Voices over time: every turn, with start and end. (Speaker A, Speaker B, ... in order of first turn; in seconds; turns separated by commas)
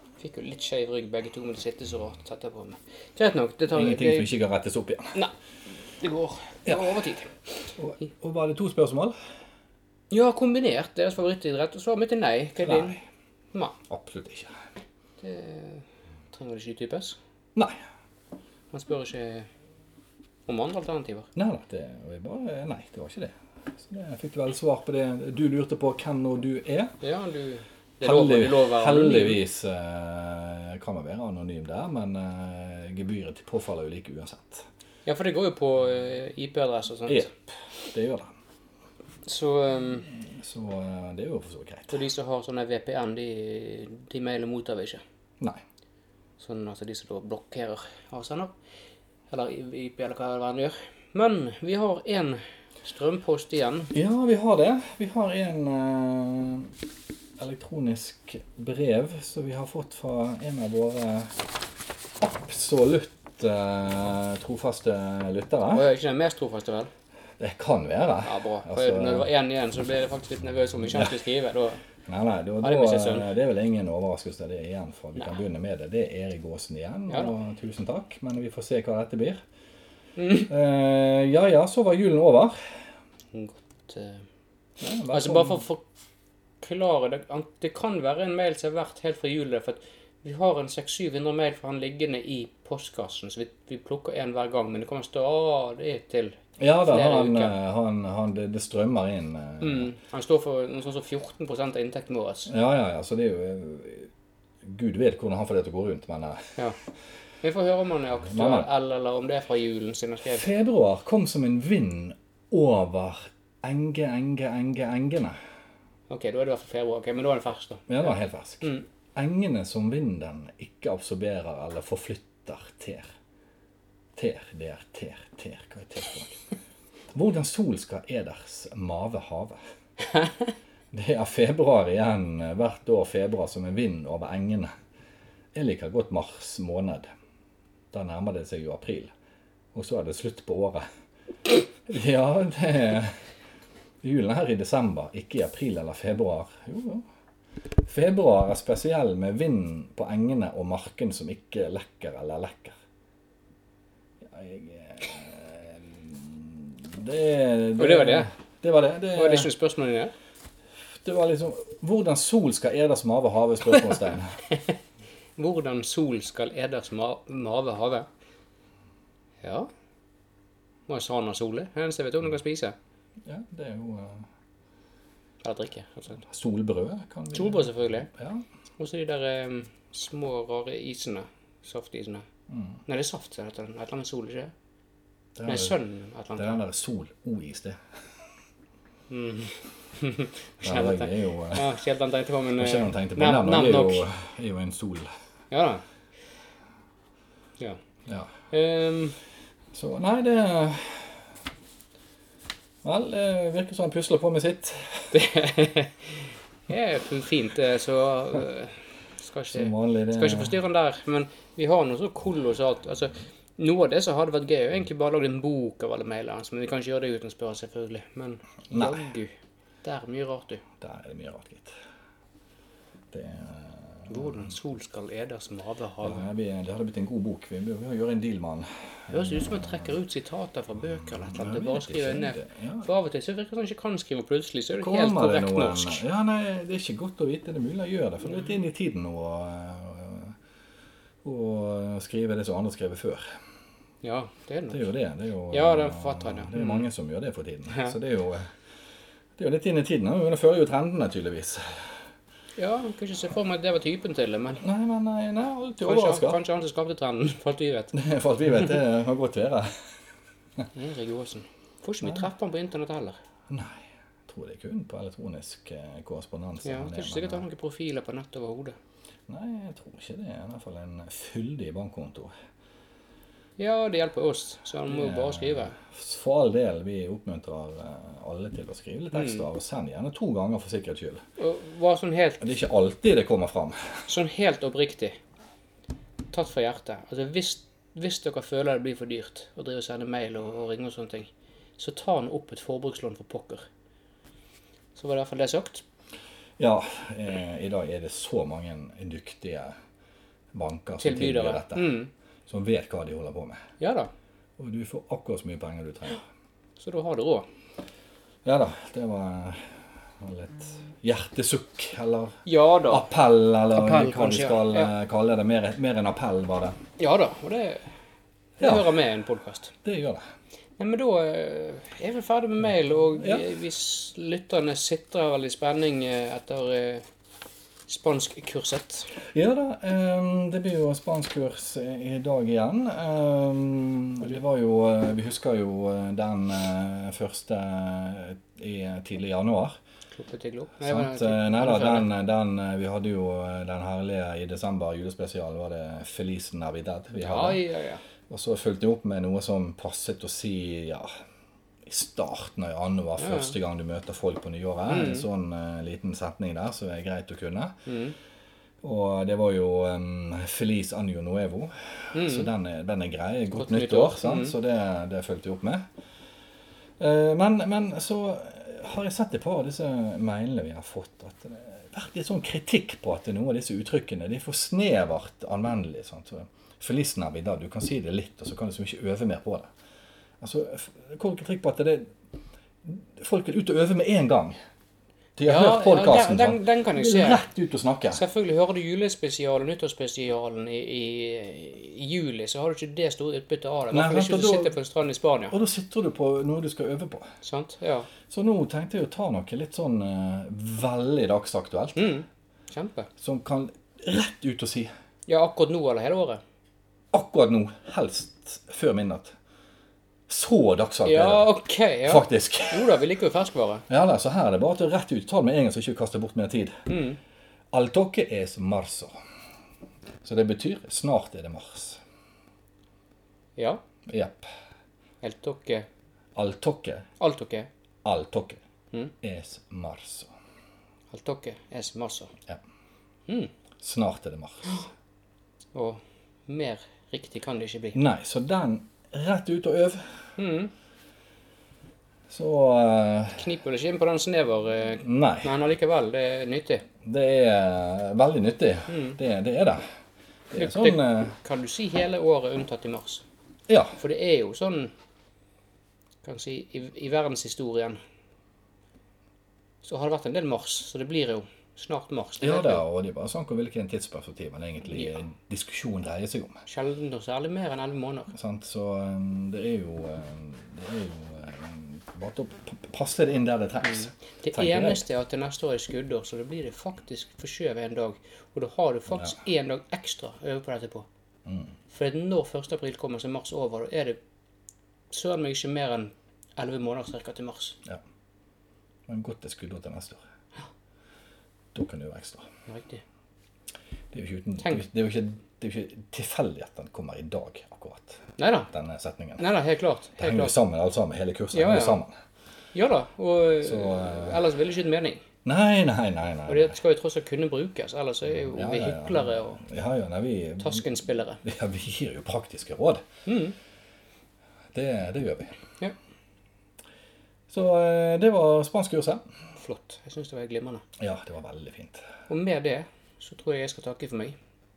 Speaker A: 0.2-4.3, Speaker B: 3.7-5.2, Speaker A: 5.9-7.3, Speaker B: 6.7-6.9, Speaker B: 7.8-9.1, Speaker A: 10.1-13.0, Speaker B: 12.6-13.0, Speaker B: 13.9-14.6, Speaker A: 15.2-17.2, Speaker A: 18.7-19.5, Speaker A: 20.5-21.3, Speaker B: 21.3-26.9, Speaker A: 27.0-29.4, Speaker B: 28.0-34.6, Speaker A: 35.0-37.3, Speaker B: 37.1-38.3, Speaker A: 39.2-40.1, Speaker B: 40.2-41.9, Speaker A: 41.9-45.0, Speaker A: 46.4-48.5, Speaker A: 49.3-53.9, Speaker B: 53.9-56.7, Speaker B: 57.4-61.4, Speaker B: 62.2-65.8, Speaker A: 65.7-66.9, Speaker B: 67.4-69.3, Speaker A: 68.2-71.8, Speaker B: 72.0-79.4, Speaker A: 72.6-73.3, Speaker A: 80.2-80.5, Speaker B: 80.5-82.6, Speaker A: 83.3-84.2, Speaker B: 84.8-85.6, Speaker A: 85.1-85.8, Speaker A: 86.6-97.5, Speaker B: 96.6-99.9, Speaker A: 99.6-102.5, Speaker B: 102.5-104.1, Speaker B: 104.6-106.6, Speaker A: 107.4-110.4, Speaker B: 108.2-108.7, Speaker B: 110.2-115.4, Speaker A: 116.1-118.1, Speaker B: 117.9-123.1, Speaker B: 124.2-126.4, Speaker B: 127.1-129.6, Speaker B: 130.9-134.7, Speaker B: 135.5-137.1, Speaker B: 137.9-139.1, Speaker B: 139.7-140.8, Speaker B: 141.8-143.2, Speaker B: 144.0-147.0, Speaker B: 147.8-152.8, Speaker B: 154.2-159.5, Speaker A: 157.8-158.3, Speaker A: 159.1-160.1, Speaker B: 161.0-164.4, Speaker A: 165.4-168.1, Speaker A: 169.4-169.7, Speaker A: 170.9-172.7, Speaker B: 173.2-174.3, Speaker A: 175.4-176.2, Speaker B: 176.2-178.4, Speaker A: 177.3-178.1, Speaker A: 178.8-182.2, Speaker B: 182.5-182.7, Speaker A: 182.9-184.5, Speaker B: 185.3-185.7, Speaker A: 185.4-186.6, Speaker B: 186.3-187.8, Speaker A: 189.1-194.0, Speaker B: 190.6-191.7, Speaker B: 192.6-195.1, Speaker A: 195.5-195.8, Speaker B: 198.1-198.3, Speaker A: 198.5-199.2, Speaker B: 199.7-201.2, Speaker B: 202.8-205.2, Speaker A: 205.1-206.1, Speaker A: 206.7-220.6, Speaker B: 209.5-210.5, Speaker B: 218.7-219.0, Speaker B: 220.8-221.7, Speaker B: 223.1-224.4, Speaker A: 224.1-226.3, Speaker B: 226.0-229.9, Speaker A: 229.1-236.0, Speaker B: 231.1-232.8, Speaker B: 234.8-240.3, Speaker B: 241.2-243.2, Speaker A: 244.0-244.9, Speaker B: 244.7-248.5, Speaker A: 245.5-246.9, Speaker B: 249.4-252.0, Speaker A: 252.6-254.6, Speaker B: 254.6-256.4, Speaker A: 255.8-257.9, Speaker B: 257.9-259.9, Speaker A: 260.7-263.2, Speaker B: 262.0-262.3, Speaker B: 263.5-267.4, Speaker A: 266.6-268.8, Speaker B: 269.3-272.3, Speaker A: 273.6-275.8, Speaker B: 274.9-281.2, Speaker A: 279.1-279.4, Speaker A: 281.4-282.5, Speaker B: 282.4-284.1, Speaker A: 284.1-285.2, Speaker A: 286.3-293.6, Speaker A: 294.9-295.8, Speaker B: 296.6-299.8, Speaker B: 300.5-301.9, Speaker A: 301.0-302.1, Speaker B: 302.5-303.6, Speaker A: 303.8-304.1, Speaker B: 304.6-306.2, Speaker A: 306.8-307.5, Speaker B: 308.4-316.8, Speaker A: 312.4-313.1, Speaker A: 313.7-314.9, Speaker A: 317.0-317.8, Speaker A: 318.6-319.7, Speaker B: 318.6-318.9, Speaker B: 319.8-320.2, Speaker A: 320.8-327.0, Speaker B: 323.2-323.4, Speaker A: 327.9-329.1, Speaker B: 329.2-339.7, Speaker A: 340.1-342.1, Speaker B: 340.8-347.6, Speaker A: 347.2-348.0, Speaker B: 348.3-351.1, Speaker B: 351.9-357.8, Speaker A: 353.2-353.5, Speaker A: 354.9-355.2, Speaker A: 357.9-358.1, Speaker B: 358.8-365.9, Speaker A: 362.1-362.5, Speaker A: 363.5-364.5, Speaker B: 367.0-379.7, Speaker B: 380.4-382.1, Speaker B: 382.8-384.6, Speaker B: 385.4-388.2, Speaker A: 385.4-387.4, Speaker A: 388.1-395.6, Speaker B: 393.9-394.7, Speaker B: 395.5-397.3, Speaker A: 397.4-398.1, Speaker B: 398.3-402.1, Speaker A: 401.9-403.1, Speaker B: 403.2-404.9, Speaker A: 405.3-406.4, Speaker B: 407.1-409.3, Speaker B: 410.3-411.5, Speaker A: 411.0-413.8, Speaker B: 412.0-413.0, Speaker B: 413.9-416.9, Speaker A: 416.9-417.2, Speaker B: 417.7-419.1, Speaker B: 420.2-422.0, Speaker A: 423.6-423.8, Speaker B: 424.1-424.5, Speaker A: 425.2-425.9, Speaker B: 426.3-427.1, Speaker A: 427.2-427.7, Speaker B: 428.0-428.6, Speaker B: 429.2-430.3, Speaker A: 431.1-432.3, Speaker B: 433.8-434.9, Speaker A: 435.7-438.0, Speaker B: 437.9-440.1, Speaker A: 440.4-440.7, Speaker B: 442.3-443.4, Speaker A: 443.3-446.9, Speaker B: 445.0-445.5, Speaker B: 447.0-449.8, Speaker A: 448.9-449.2, Speaker B: 450.5-451.4, Speaker A: 450.6-453.2, Speaker B: 453.7-454.0, Speaker A: 454.0-454.9, Speaker A: 456.2-458.0, Speaker A: 459.8-462.8, Speaker B: 462.4-466.6, Speaker A: 466.7-468.3, Speaker B: 468.3-475.0, Speaker A: 473.8-481.1, Speaker A: 481.9-484.2, Speaker A: 485.1-487.8, Speaker B: 489.1-490.2, Speaker B: 491.7-492.5, Speaker A: 492.7-493.0, Speaker B: 494.1-499.4, Speaker A: 498.4-498.7, Speaker A: 499.4-500.6, Speaker B: 500.2-502.1, Speaker A: 501.5-502.0, Speaker A: 502.7-505.2, Speaker B: 503.6-504.4, Speaker B: 505.4-506.8, Speaker A: 506.5-509.6, Speaker B: 508.4-510.8, Speaker A: 510.6-511.4, Speaker B: 511.4-513.0, Speaker A: 513.2-513.5, Speaker B: 514.7-515.5, Speaker B: 517.5-519.2, Speaker A: 519.6-520.8, Speaker B: 521.0-522.0, Speaker A: 522.3-524.4